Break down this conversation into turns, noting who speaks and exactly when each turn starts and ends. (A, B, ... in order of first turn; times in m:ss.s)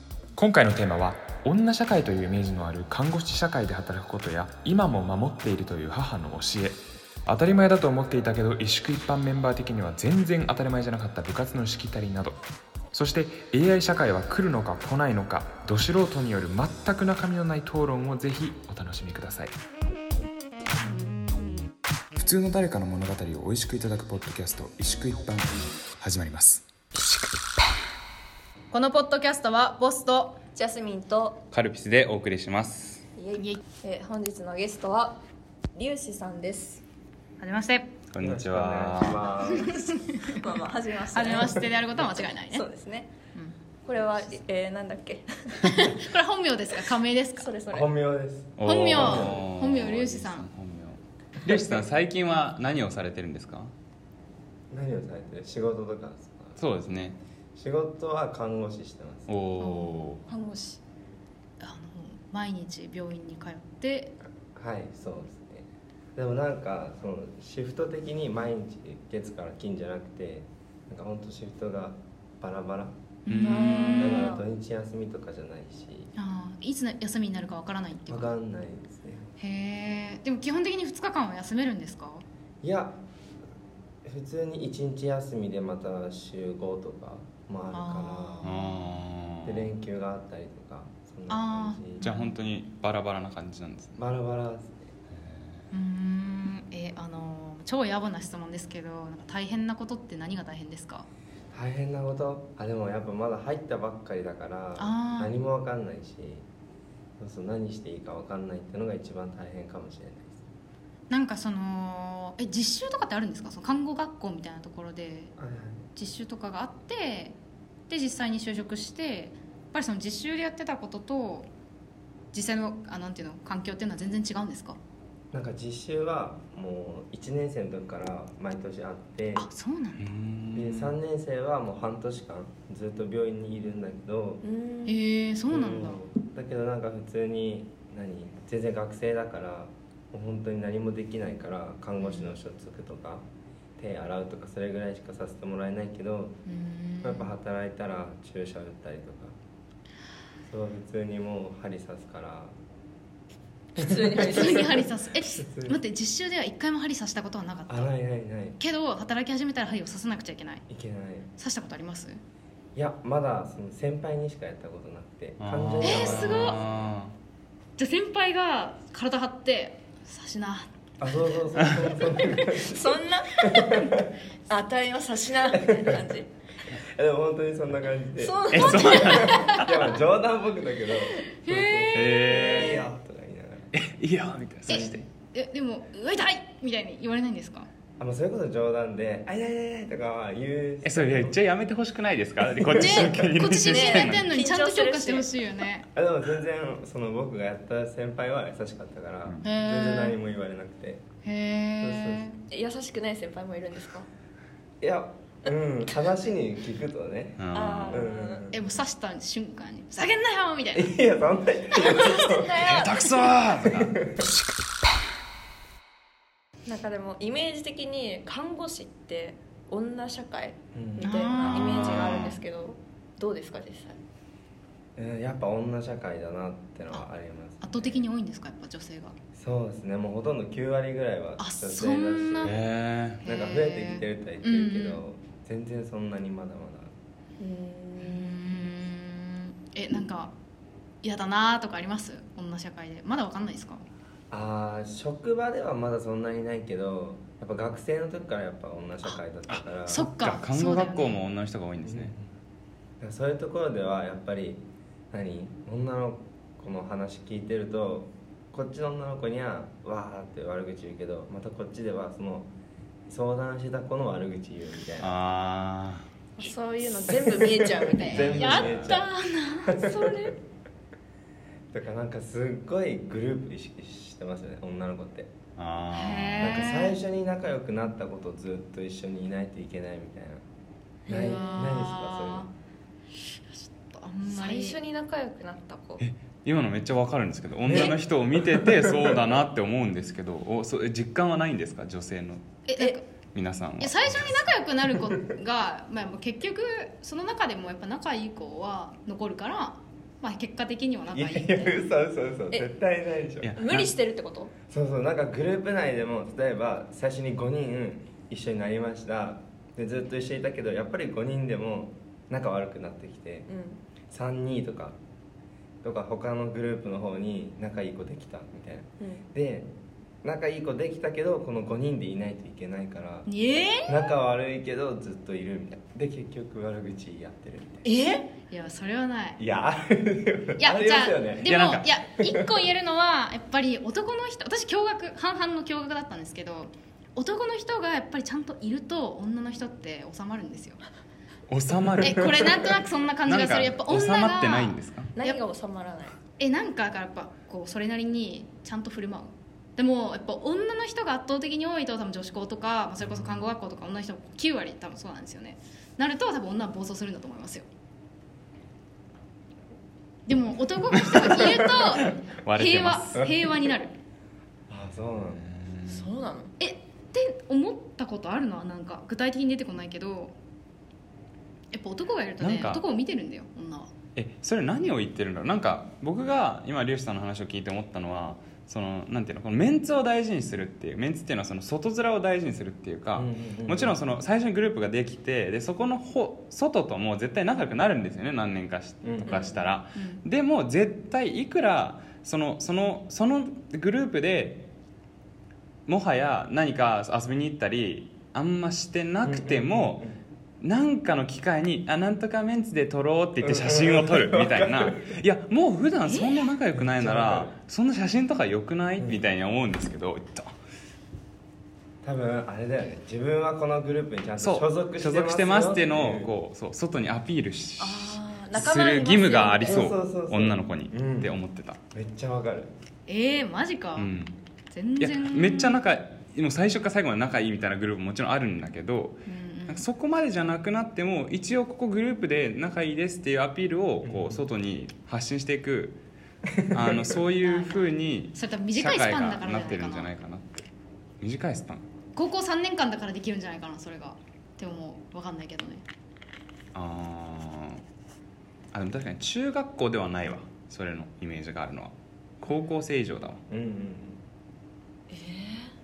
0:00.4-0:12.4 A
0:12.9-0:19.5 A
0:22.2-0:26.7 A
0:28.7-0:30.4 B
0:30.5-0:31.4 C
0:31.5-0:33.1 D
0:33.2-0:35.2 C
0:33.4-0:33.6 B
0:35.8-0:36.8 C
0:37.4-0:37.9 B
0:38.1-0:39.4 D
0:38.2-0:39.9 E
0:39.5-0:40.4 B
0:40.3-0:43.1 C
0:41.1-0:42.7 B
0:43.8-0:46.0 C
0:45.6-0:47.5 B
0:47.4-0:47.9 C
0:47.7-0:49.4 E
0:48.6-0:53.7 D
0:48.6-0:50.5 B
0:54.7-0:56.6 E
0:56.6-0:57.2 D
0:57.6-0:59.3 E
0:59.3-1:00.2 D
0:59.6-1:00.2 B
1:00.2-1:00.8 C
1:01.6-1:04.2 B
1:04.2-1:13.0 E
1:13.3-1:14.2 B
1:13.3-1:14.1 D
1:13.4-1:14.4 C
1:14.0-1:16.1 E
1:16.2-1:18.4 B
1:18.1-1:19.3 E
1:19.4-1:22.2 B
1:22.6-1:23.0 E
1:24.0-1:28.5 E
1:27.7-1:29.0 B
1:28.4-1:29.7 D
1:29.4-1:32.1 E
1:31.3-1:32.4 B
1:32.0-1:34.0 D
1:34.0-1:34.9 E
1:35.1-1:35.7 D
1:35.7-1:41.1 B
1:41.5-1:46.4 E
1:44.8-1:45.4 B
1:47.2-1:50.4 E
1:51.1-1:55.3 B
1:55.4-1:55.8 E
1:56.0-1:57.4 B
1:57.9-2:01.5 B
2:02.3-2:04.8 B
2:05.3-2:09.5 E
2:09.4-2:10.1 B
2:10.0-2:10.9 D
2:10.5-2:14.4 E
2:14.4-2:15.0 C
2:14.9-2:16.0 B
2:15.5-2:23.3 E
2:22.0-2:22.3 B
2:23.8-2:26.4 E
2:26.5-2:27.3 B
2:27.0-2:29.4 E
2:30.5-2:32.5 E
2:33.8-2:34.8 C
2:33.8-2:35.8 E
2:34.2-2:37.9 B
2:37.7-2:38.6 E
2:38.6-2:40.6 B
2:40.7-2:41.3 E
2:41.4-2:42.2 B
2:42.8-2:46.8 E
2:45.4-2:47.1 D
2:45.8-2:46.6 B
2:47.8-2:50.7 B
2:51.0-2:54.1 E
2:52.5-2:53.9 C
2:54.5-2:56.3 C
2:55.5-2:56.0 E
2:56.7-3:03.7 E
2:58.2-2:59.5 C
2:58.5-2:59.7 D
2:58.6-2:59.7 B
3:01.4-3:02.4 B
3:01.9-3:02.8 D
3:02.3-3:02.8 C
3:03.7-3:05.1 D
3:04.7-3:07.7 B
3:04.7-3:05.0 E
3:08.0-3:11.4 E
3:10.8-3:14.3 D
3:12.6-3:13.3 E
3:12.7-3:15.9 B
3:13.6-3:15.3 C
3:15.9-3:21.0 E
3:19.4-3:20.2 B
3:21.2-3:22.4 B
3:21.8-3:22.3 E
3:22.5-3:24.1 C
3:24.8-3:28.7 E
3:27.4-3:28.1 D
3:27.5-3:28.4 C
3:28.5-3:31.0 B
3:30.8-3:32.6 E
3:31.8-3:33.4 C
3:32.6-3:34.0 D
3:33.6-3:34.2 E
3:36.7-3:44.0 C
3:40.8-3:41.2 E
3:41.0-3:42.2 B
3:41.4-3:42.4 D
3:45.0-3:48.1 E
3:47.6-3:49.2 B
3:49.4-3:52.6 E
3:51.4-3:52.6 B
3:52.4-3:53.2 D
3:53.2-3:55.0 B
3:53.2-3:56.9 E
3:57.4-3:58.6 C
3:58.0-4:00.3 B
4:01.0-4:03.8 B
4:04.3-4:10.0 E
4:09.5-4:12.1 D
4:09.9-4:11.2 B
4:11.8-4:12.3 E
4:13.0-4:22.5 E
4:23.1-4:25.1 E
4:25.0-4:26.1 D
4:26.4-4:28.5 C
4:27.0-4:29.1 E
4:28.0-4:29.8 B
4:28.1-4:29.0 D
4:29.6-4:30.3 E
4:29.8-4:30.4 C
4:31.7-4:35.3 E
4:35.6-4:36.5 D
4:35.9-4:37.0 B
4:36.4-4:40.4 E
4:41.1-4:41.7 C
4:41.1-4:42.5 E
4:41.1-4:42.5 B
4:43.8-4:44.8 B
4:44.3-4:46.0 C
4:46.0-4:52.5 D
4:47.6-4:49.2 E
4:52.7-4:53.1 B
4:53.3-4:54.5 D
4:53.8-5:01.8 B
5:01.1-5:03.6 E
5:03.4-5:03.9 D
5:03.6-5:04.5 C
5:04.7-5:13.5 E
5:13.5-5:13.8 C
5:14.1-5:15.0 E
5:15.8-5:19.7 E
5:20.2-5:23.3 E
5:23.3-5:24.1 B
5:23.8-5:27.9 E
5:27.8-5:28.3 C
5:28.5-5:29.4 B
5:29.4-5:31.5 E
5:30.6-5:40.8 B
5:31.4-5:31.9 D
5:41.5-5:45.1 D
5:41.9-5:42.6 E
5:42.0-5:45.4 B
5:45.2-5:46.2 C
5:46.4-5:57.7 B
6:00.3-6:03.9 B
6:01.0-6:03.2 D
6:04.7-6:05.5 E
6:05.4-6:06.1 D
6:05.9-6:06.5 C
6:06.6-6:10.3 B
6:11.7-6:13.9 B
6:12.4-6:12.8 D
6:14.2-6:34.7 D
6:23.2-6:24.0 E
6:29.0-6:29.4 E
6:29.3-6:30.2 B
6:35.9-6:40.0 D
6:39.2-6:40.2 E
6:40.6-6:50.5 D
6:43.4-6:45.2 E
6:46.1-6:46.5 B
6:46.7-6:47.6 E
6:52.0-6:56.4 E
6:54.4-7:01.8 D
6:57.8-6:59.9 C
6:59.6-7:01.4 E
7:01.9-7:02.7 E
7:03.1-7:04.1 B
7:04.0-7:04.4 D
7:04.7-7:05.8 B
7:05.0-7:16.0 D
7:09.3-7:09.8 B
7:14.0-7:14.4 E
7:16.5-7:17.2 E
7:16.7-7:20.6 D
7:17.4-7:20.1 B
7:21.2-7:21.8 D
7:22.2-7:25.8 B
7:26.7-7:27.8 D
7:28.7-7:33.4 D
7:33.5-7:34.2 E
7:35.1-7:35.7 C